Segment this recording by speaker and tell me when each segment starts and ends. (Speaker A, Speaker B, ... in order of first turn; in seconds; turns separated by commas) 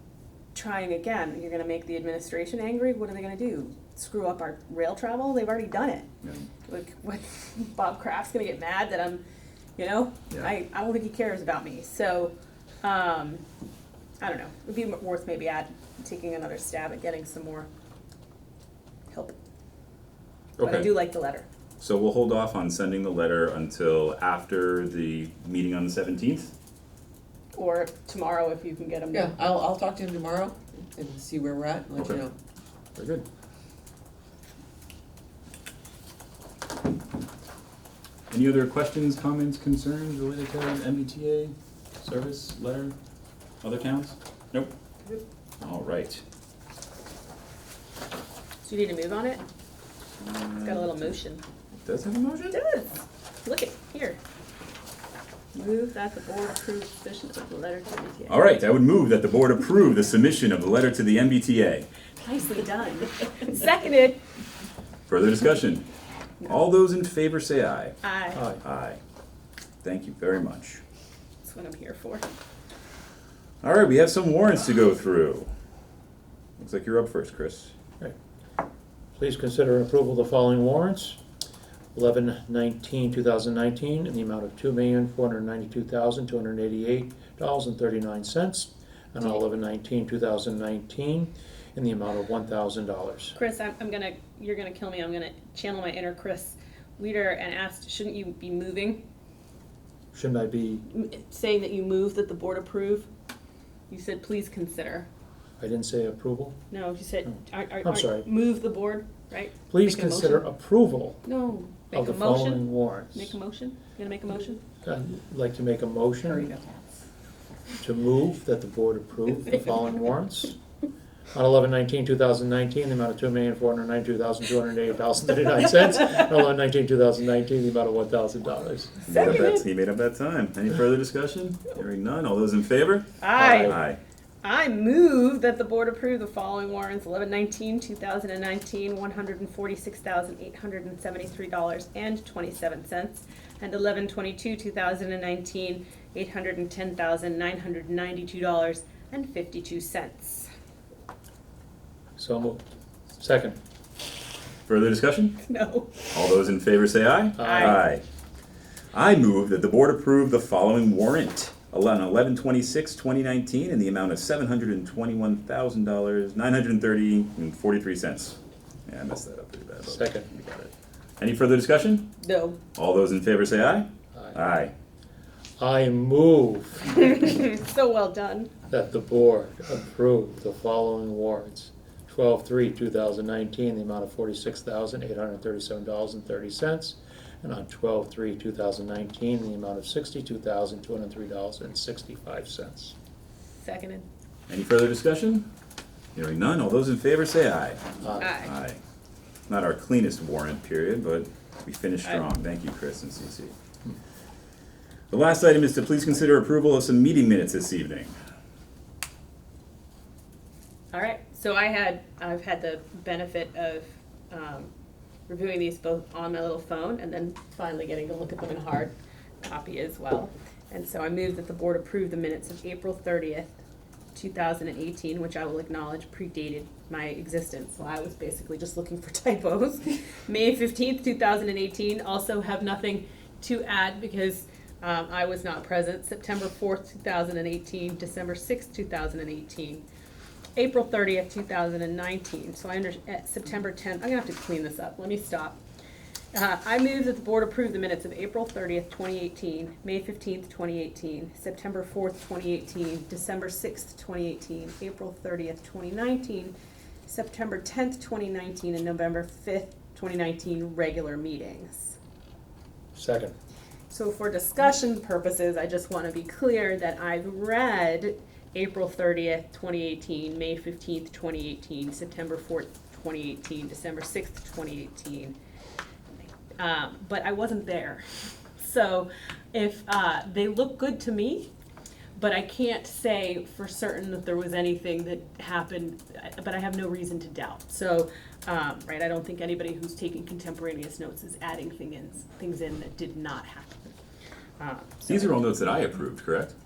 Speaker A: 0.5-6.1, Speaker A: 6.7-9.2, Speaker A: 9.8-13.4, Speaker A: 14.2-17.7, Speaker A: 19.1-19.4, Speaker B: 20.6-20.9, Speaker A: 20.6-21.5, Speaker B: 21.8-26.5, Speaker A: 27.5-29.4, Speaker C: 29.1-32.3, Speaker B: 31.9-32.2, Speaker B: 33.0-33.2, Speaker B: 38.3-42.9, Speaker B: 43.6-44.7, Speaker B: 45.6-46.2, Speaker A: 48.6-49.4, Speaker B: 50.2-50.9, Speaker A: 50.6-51.4, Speaker B: 51.8-52.6, Speaker A: 52.5-54.2, Speaker A: 55.5-58.4, Speaker B: 58.3-61.9, Speaker A: 62.2-64.2, Speaker B: 65.1-65.9, Speaker B: 66.4-68.0, Speaker A: 68.0-68.4, Speaker D: 68.3-68.6, Speaker B: 68.6-69.0, Speaker B: 69.8-70.8, Speaker A: 71.4-72.2, Speaker B: 73.6-75.5, Speaker B: 76.6-77.7, Speaker D: 79.1-81.2, Speaker D: 81.9-93.3, Speaker A: 93.3-99.0, Speaker D: 100.1-100.8, Speaker A: 100.9-103.1, Speaker A: 103.9-105.1, Speaker D: 105.6-106.6, Speaker A: 106.7-110.5, Speaker D: 107.2-108.3, Speaker D: 109.7-111.2, Speaker A: 111.2-114.6, Speaker D: 111.9-113.3, Speaker D: 114.8-116.5, Speaker D: 117.8-120.5, Speaker D: 121.3-129.3, Speaker B: 129.1-134.0, Speaker A: 129.1-129.6, Speaker A: 133.2-133.8, Speaker D: 133.3-133.8, Speaker A: 134.4-150.5, Speaker D: 152.2-152.6, Speaker D: 153.2-153.6, Speaker B: 154.7-155.4, Speaker A: 155.4-155.9, Speaker B: 156.1-158.0, Speaker D: 157.4-157.8, Speaker A: 157.4-157.8, Speaker B: 158.9-172.1, Speaker D: 169.8-170.3, Speaker A: 172.2-172.6, Speaker B: 172.7-174.7, Speaker D: 174.1-174.4, Speaker D: 175.6-177.1, Speaker A: 176.9-178.5, Speaker D: 178.7-192.9, Speaker A: 193.6-194.1, Speaker B: 194.5-195.5, Speaker B: 196.1-197.8, Speaker D: 198.0-198.3, Speaker A: 198.2-198.5, Speaker B: 198.4-198.8, Speaker B: 199.5-203.5, Speaker B: 205.1-208.1, Speaker A: 210.9-214.7, Speaker A: 215.3-223.6, Speaker A: 224.1-239.8, Speaker A: 240.6-245.6, Speaker A: 246.3-256.5, Speaker A: 257.1-261.9, Speaker D: 262.9-263.3, Speaker A: 263.9-275.4, Speaker A: 276.5-278.0, Speaker A: 278.6-281.5, Speaker A: 282.1-293.9, Speaker A: 294.6-295.4, Speaker B: 295.1-296.5